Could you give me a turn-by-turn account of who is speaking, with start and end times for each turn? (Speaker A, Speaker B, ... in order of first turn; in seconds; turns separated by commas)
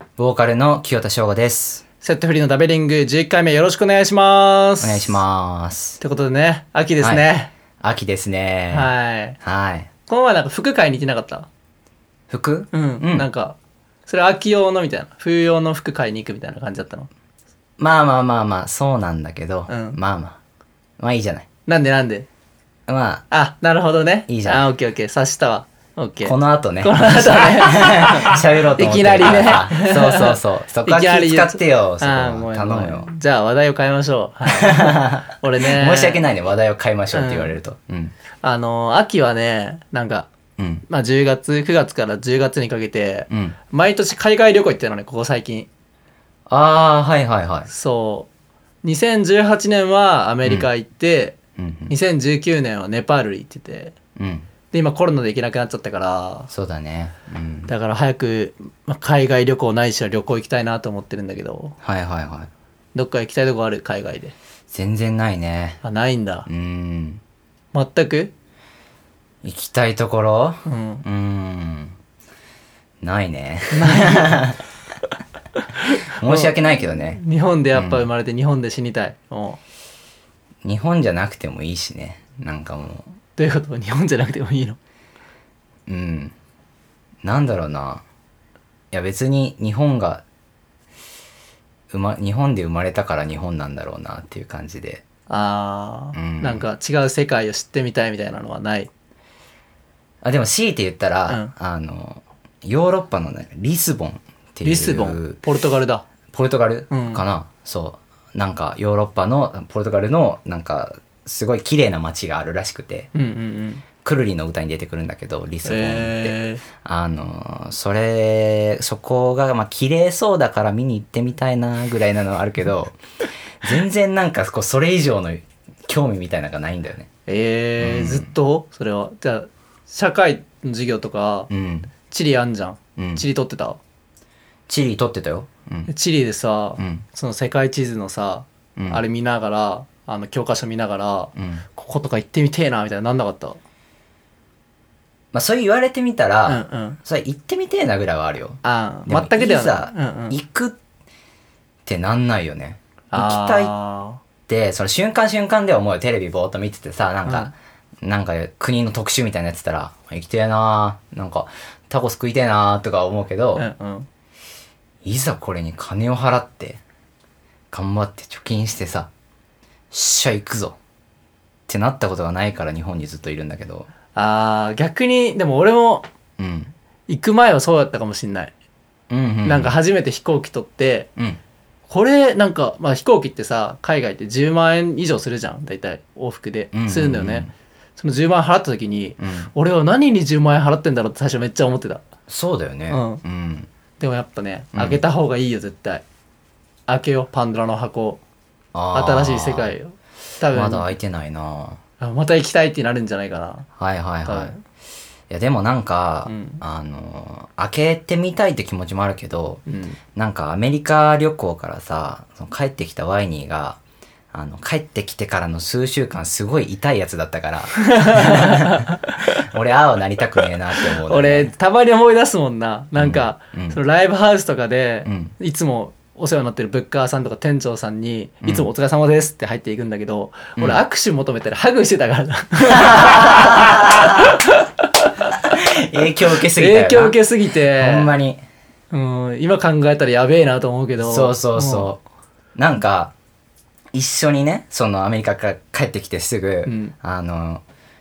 Speaker A: 0.2-1.8, Speaker B: 2.0-5.2, Speaker A: 4.8-6.0, Speaker B: 6.0-7.5, Speaker A: 7.8-9.9, Speaker B: 8.7-9.4, Speaker B: 10.1-11.5, Speaker A: 12.3-13.3, Speaker B: 12.7-17.1, Speaker A: 17.8-20.4, Speaker B: 19.7-20.0, Speaker A: 21.0-21.5, Speaker B: 21.7-22.3, Speaker A: 22.9-23.2, Speaker B: 23.3-36.2, Speaker A: 24.3-24.6, Speaker A: 26.2-33.1, Speaker A: 34.5-38.1, Speaker B: 37.1-37.5, Speaker B: 38.4-40.3, Speaker A: 40.6-40.8, Speaker B: 40.9-45.7, Speaker A: 43.3-43.5, Speaker A: 46.5-47.7, Speaker B: 47.7-48.3, Speaker B: 48.8-51.4, Speaker A: 51.6-51.9, Speaker B: 51.9-54.0, Speaker A: 54.1-54.5, Speaker B: 54.7-56.5, Speaker A: 56.5-57.7, Speaker B: 57.7-61.8, Speaker A: 61.8-62.5, Speaker B: 62.9-64.3, Speaker A: 64.7-65.8, Speaker B: 65.8-66.5, Speaker A: 66.5-67.2, Speaker B: 67.7-68.3, Speaker A: 69.4-72.0, Speaker B: 70.6-71.0, Speaker A: 73.0-74.6, Speaker B: 73.7-74.4, Speaker B: 75.7-79.6, Speaker A: 76.2-77.2, Speaker A: 77.7-78.1, Speaker A: 80.6-83.1, Speaker B: 83.4-84.8, Speaker A: 85.9-86.3, Speaker A: 87.2-88.0, Speaker A: 88.9-90.2, Speaker A: 91.9-95.0, Speaker B: 95.3-98.9, Speaker A: 96.1-96.6, Speaker A: 100.2-105.4, Speaker B: 101.3-101.5, Speaker B: 104.6-106.0, Speaker A: 106.3-113.1, Speaker B: 106.9-107.2, Speaker B: 113.1-113.8, Speaker A: 114.0-123.0, Speaker B: 115.6-116.6, Speaker A: 123.6-127.1, Speaker B: 127.3-131.5, Speaker A: 127.8-128.3, Speaker A: 131.5-131.9, Speaker B: 132.0-133.8, Speaker A: 133.0-133.2, Speaker A: 134.7-135.9, Speaker B: 135.9-143.6, Speaker A: 136.8-137.0, Speaker A: 138.8-139.0, Speaker A: 141.3-141.6, Speaker A: 145.3-150.8, Speaker B: 146.5-147.0, Speaker B: 148.6-150.4, Speaker A: 151.8-153.7, Speaker B: 153.1-154.2, Speaker A: 154.5-163.7, Speaker B: 157.2-157.5, Speaker B: 163.6-164.1, Speaker A: 165.0-166.8, Speaker A: 167.7-169.1, Speaker A: 169.9-170.8, Speaker A: 171.7-173.9, Speaker B: 174.1-176.1, Speaker A: 176.4-176.7, Speaker B: 177.1-178.5, Speaker A: 179.1-179.7, Speaker B: 179.4-181.1, Speaker B: 181.9-192.0, Speaker A: 186.7-187.5, Speaker A: 189.2-189.5, Speaker A: 192.3-193.7, Speaker B: 192.9-193.2, Speaker B: 194.0-196.0, Speaker A: 194.7-195.0, Speaker B: 196.9-198.2, Speaker A: 198.7-199.7, Speaker B: 198.9-200.9, Speaker A: 200.5-201.8, Speaker B: 202.0-203.7, Speaker A: 203.8-204.5, Speaker B: 204.2-204.6, Speaker A: 205.3-209.6, Speaker B: 206.2-206.6, Speaker B: 209.7-210.0, Speaker A: 210.1-213.8, Speaker A: 214.3-221.5, Speaker B: 217.9-219.1, Speaker B: 221.0-235.6, Speaker A: 223.0-223.8, Speaker A: 225.0-225.3, Speaker A: 228.4-228.7, Speaker A: 232.7-234.4, Speaker A: 235.4-237.2, Speaker B: 236.5-238.1, Speaker A: 237.7-238.4, Speaker B: 238.9-241.9, Speaker A: 241.0-242.0, Speaker A: 242.5-243.1, Speaker A: 243.9-247.6, Speaker B: 246.6-246.9